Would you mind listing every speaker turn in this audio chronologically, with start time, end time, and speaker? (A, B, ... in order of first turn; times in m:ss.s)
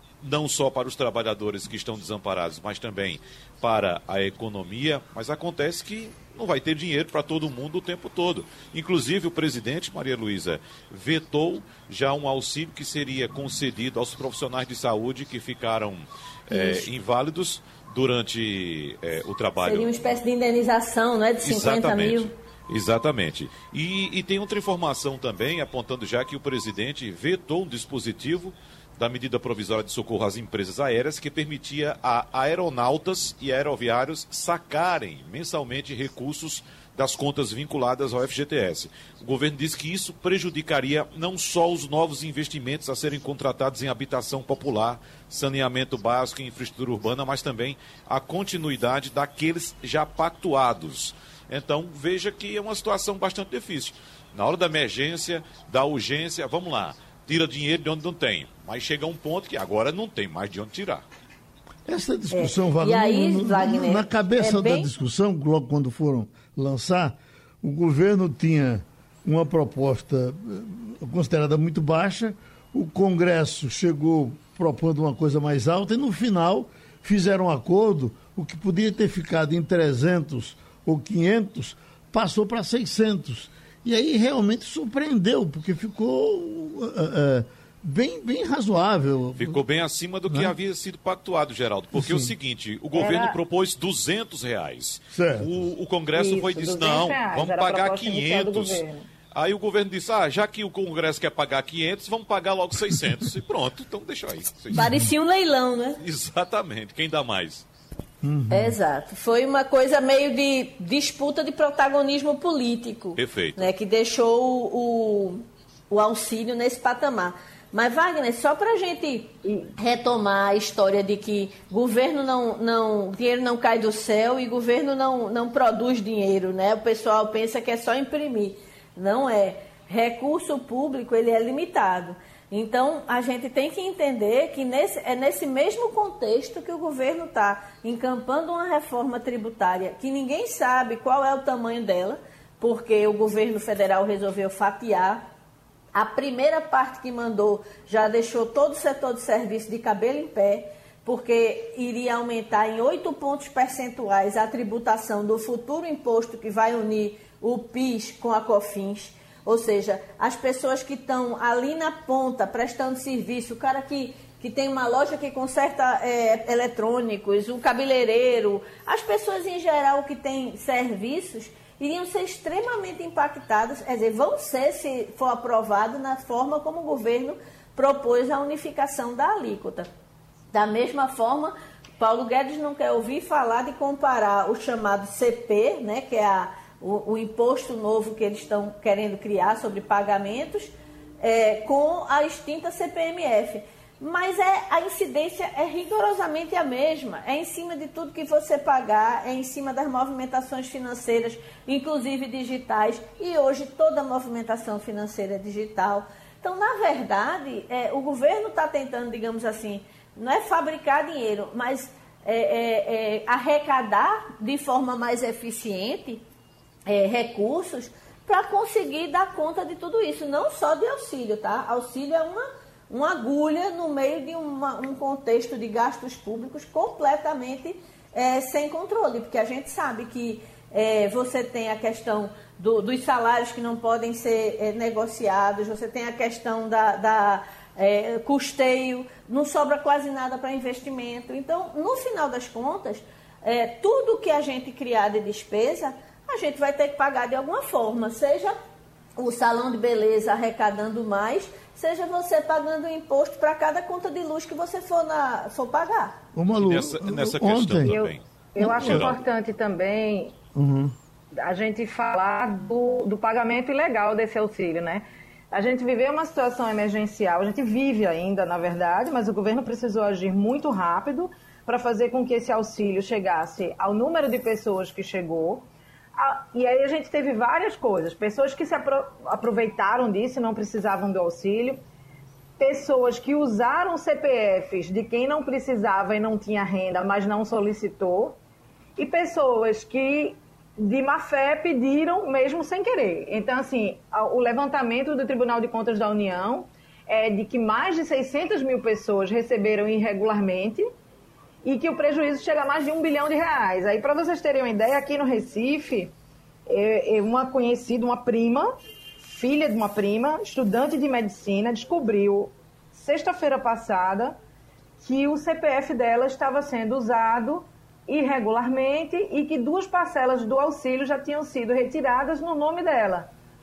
0:00.2-0:19.9 A
0:16.5-0:16.9 B
0:19.6-0:22.3 B
0:21.4-1:01.0 A
1:01.8-1:29.6 C
1:02.3-1:04.9 B
1:29.3-1:38.8 A
1:30.3-1:30.5 C
1:31.9-1:32.3 C
1:32.9-1:33.4 D
1:35.1-1:35.5 C
1:36.1-1:39.1 D
1:39.3-1:45.0 A
1:44.7-1:46.0 B
1:46.0-1:47.6 A
1:48.2-1:48.8 C
1:48.5-2:25.2 B
1:53.2-1:53.7 A
1:59.4-1:59.7 D
2:25.9-2:59.9 B
3:00.5-3:36.2 B
3:36.9-4:08.6 B
4:09.2-4:16.2 B
4:16.3-4:18.0 C
4:16.6-4:19.2 A
4:17.8-4:20.3 D
4:18.6-4:19.1 C
4:20.5-4:20.9 C
4:21.3-4:41.8 D
4:42.6-4:48.4 D
4:49.0-5:00.9 D
5:01.6-5:06.1 D
5:06.7-5:08.7 D
5:09.2-5:14.4 D
5:15.0-5:23.3 D